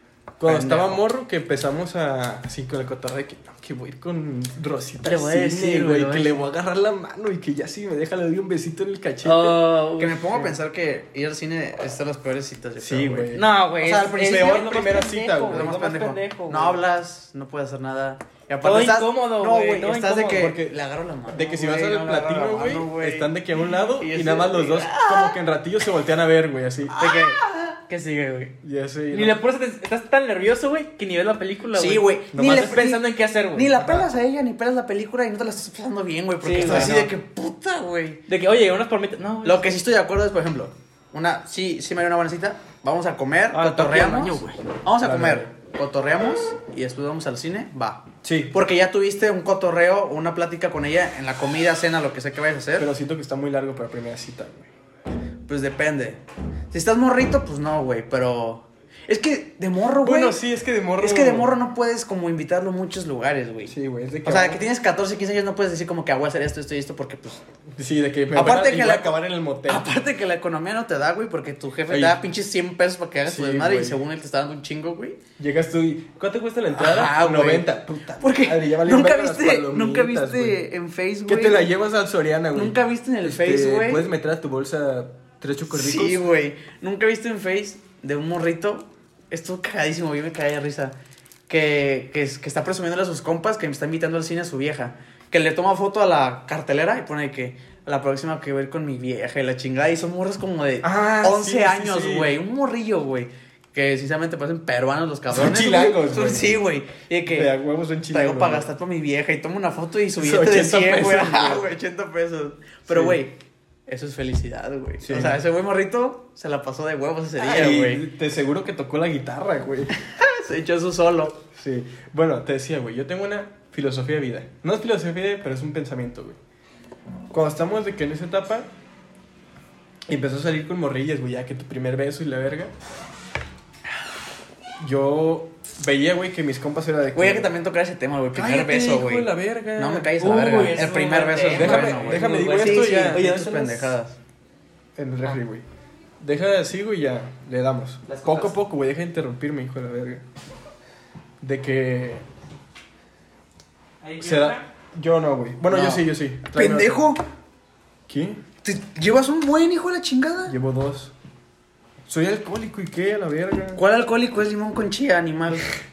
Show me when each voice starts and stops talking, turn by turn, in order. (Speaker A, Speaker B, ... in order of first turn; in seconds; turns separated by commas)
Speaker A: 0.4-9.7, Speaker B: 0.5-1.0, Speaker C: 5.0-6.4, Speaker C: 9.2-10.5, Speaker B: 10.0-14.9, Speaker A: 12.8-13.5, Speaker C: 13.3-16.8, Speaker A: 14.1-15.8, Speaker B: 15.5-25.4, Speaker C: 18.6-20.5, Speaker A: 20.3-27.0, Speaker B: 26.9-27.8, Speaker C: 27.0-28.6, Speaker A: 28.6-29.4, Speaker C: 29.1-33.8, Speaker B: 31.7-38.2, Speaker A: 32.3-32.7, Speaker A: 33.8-34.0, Speaker C: 36.4-37.0, Speaker A: 36.6-37.1, Speaker C: 38.3-39.7, Speaker B: 39.4-52.9, Speaker C: 43.5-44.6, Speaker A: 45.0-45.5, Speaker A: 48.2-48.5, Speaker A: 52.8-54.7, Speaker B: 55.5-60.4, Speaker A: 60.0-61.5, Speaker B: 61.0-63.7, Speaker A: 63.7-64.6, Speaker B: 64.2-67.4, Speaker A: 67.8-69.9, Speaker B: 68.3-75.2, Speaker A: 71.9-72.2, Speaker A: 73.2-74.0, Speaker A: 75.4-80.6, Speaker B: 76.8-81.7, Speaker A: 81.3-86.3, Speaker B: 82.5-84.1, Speaker B: 85.7-91.0, Speaker B: 91.5-107.5, Speaker A: 100.8-102.3, Speaker A: 105.3-106.6, Speaker A: 107.3-108.7, Speaker B: 108.1-118.0, Speaker A: 110.2-111.7, Speaker A: 112.9-113.2, Speaker A: 115.0-115.4, Speaker A: 117.4-119.9, Speaker B: 120.0-121.4, Speaker A: 121.5-126.4, Speaker A: 127.3-128.7, Speaker A: 130.1-132.7, Speaker A: 134.8-137.5, Speaker B: 137.2-144.2, Speaker A: 138.3-140.2, Speaker C: 140.2-143.9, Speaker A: 141.5-143.5, Speaker A: 145.0-145.7, Speaker A: 146.2-150.2, Speaker C: 148.1-148.5, Speaker A: 151.4-152.2, Speaker C: 154.0-154.7, Speaker A: 154.2-157.1, Speaker B: 155.7-157.2, Speaker A: 158.1-158.4, Speaker B: 158.6-160.6, Speaker A: 160.5-161.1, Speaker A: 162.1-163.8, Speaker B: 163.8-165.7